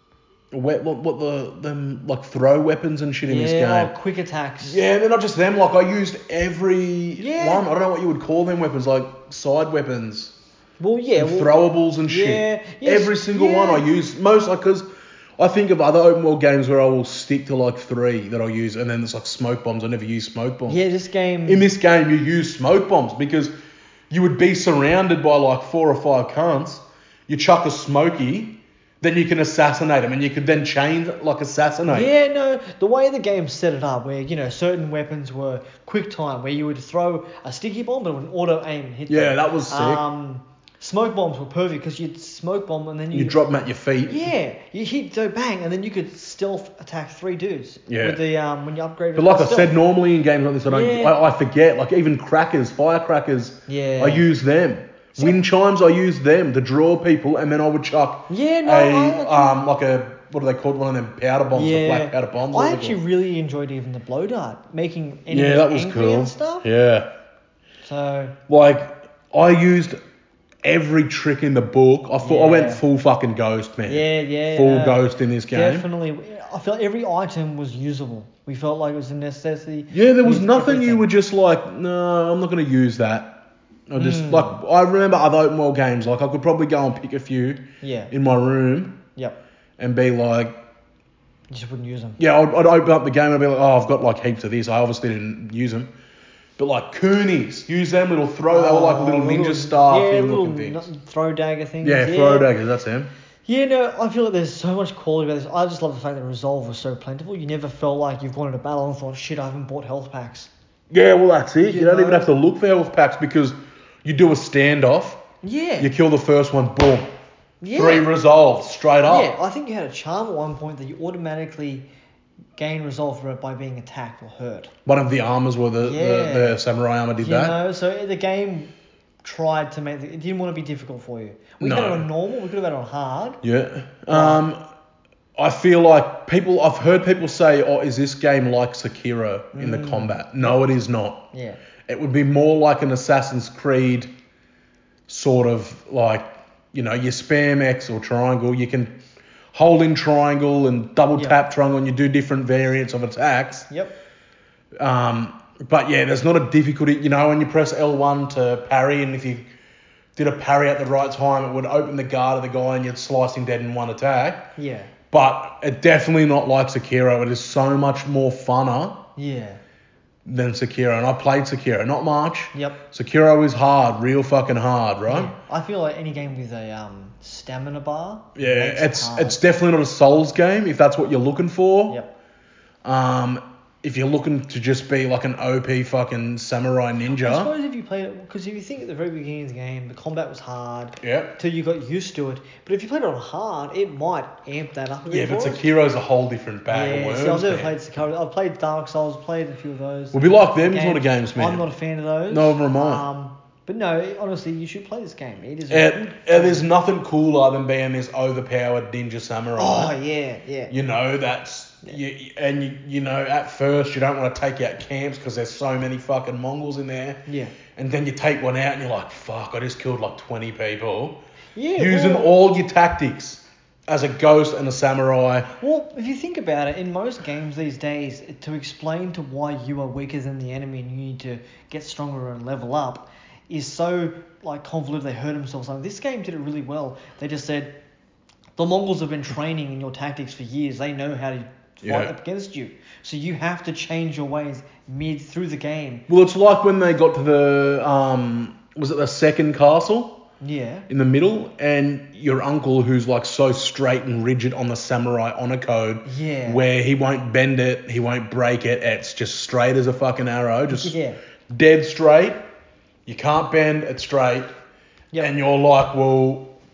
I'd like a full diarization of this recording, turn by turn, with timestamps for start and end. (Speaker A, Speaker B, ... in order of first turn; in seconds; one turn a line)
Speaker A: 0.5-3.9
Speaker B: 3.3-4.8
Speaker A: 4.6-10.3
Speaker B: 7.2-7.6
Speaker B: 10.8-11.5
Speaker A: 11.2-14.9
Speaker B: 12.1-13.9
Speaker A: 15.4-20.8
Speaker B: 20.7-21.7
Speaker A: 21.5-23.5
Speaker A: 24.1-32.1
Speaker B: 31.9-43.4
Speaker A: 39.1-40.0
Speaker A: 43.1-44.3
Speaker B: 44.1-49.7
Speaker A: 47.9-48.2
Speaker A: 49.1-63.0
Speaker B: 50.7-51.1
Speaker B: 53.7-54.3
Speaker B: 58.3-59.6
Speaker B: 61.5-66.7
Speaker A: 65.3-67.1
Speaker B: 67.8-68.4
Speaker A: 68.5-70.0
Speaker A: 70.6-75.9
Speaker B: 72.2-72.8
Speaker B: 73.9-81.1
Speaker A: 79.9-83.4
Speaker A: 83.9-89.0
Speaker B: 84.0-84.6
Speaker B: 87.8-88.1
Speaker A: 89.8-90.6
Speaker B: 91.5-92.2
Speaker A: 92.2-95.9
Speaker A: 96.6-100.9
Speaker B: 98.5-102.5
Speaker A: 101.8-103.1
Speaker B: 103.5-110.5
Speaker A: 110.9-115.2
Speaker B: 111.6-112.3
Speaker B: 115.4-115.9
Speaker A: 115.8-117.1
Speaker B: 117.6-118.1
Speaker A: 117.7-119.3
Speaker B: 119.1-121.9
Speaker B: 122.6-124.7
Speaker A: 124.9-127.6
Speaker B: 125.8-126.6
Speaker B: 127.2-128.7
Speaker B: 129.2-133.4
Speaker A: 131.6-132.1
Speaker A: 133.4-134.6
Speaker B: 134.1-134.4
Speaker A: 135.4-141.3
Speaker B: 139.5-140.6
Speaker B: 141.3-141.6
Speaker A: 141.9-144.1
Speaker A: 145.1-149.0
Speaker A: 149.5-153.7
Speaker B: 153.7-153.9
Speaker A: 154.8-159.5
Speaker A: 160.2-164.5
Speaker B: 164.6-164.9
Speaker A: 165.1-169.0
Speaker B: 169.2-169.6
Speaker A: 170.2-175.3
Speaker B: 172.5-172.8
Speaker B: 175.1-179.4
Speaker A: 178.4-182.0
Speaker A: 182.8-187.5
Speaker B: 187.2-195.7
Speaker A: 191.0-191.3
Speaker A: 195.1-197.7
Speaker B: 196.7-206.6
Speaker A: 200.1-201.7
Speaker A: 202.3-203.1
Speaker A: 205.7-209.9
Speaker B: 209.6-210.7
Speaker A: 210.7-217.2
Speaker B: 217.3-217.6
Speaker A: 217.7-221.2
Speaker B: 221.6-222.3
Speaker A: 221.8-225.5
Speaker B: 225.6-237.7
Speaker B: 238.6-246.1
Speaker A: 241.8-242.1
Speaker A: 246.1-250.2
Speaker B: 250.4-250.9
Speaker A: 250.9-261.0
Speaker B: 256.1-256.6
Speaker B: 260.7-261.2
Speaker A: 261.5-262.4
Speaker A: 263.1-264.5
Speaker A: 265.2-266.5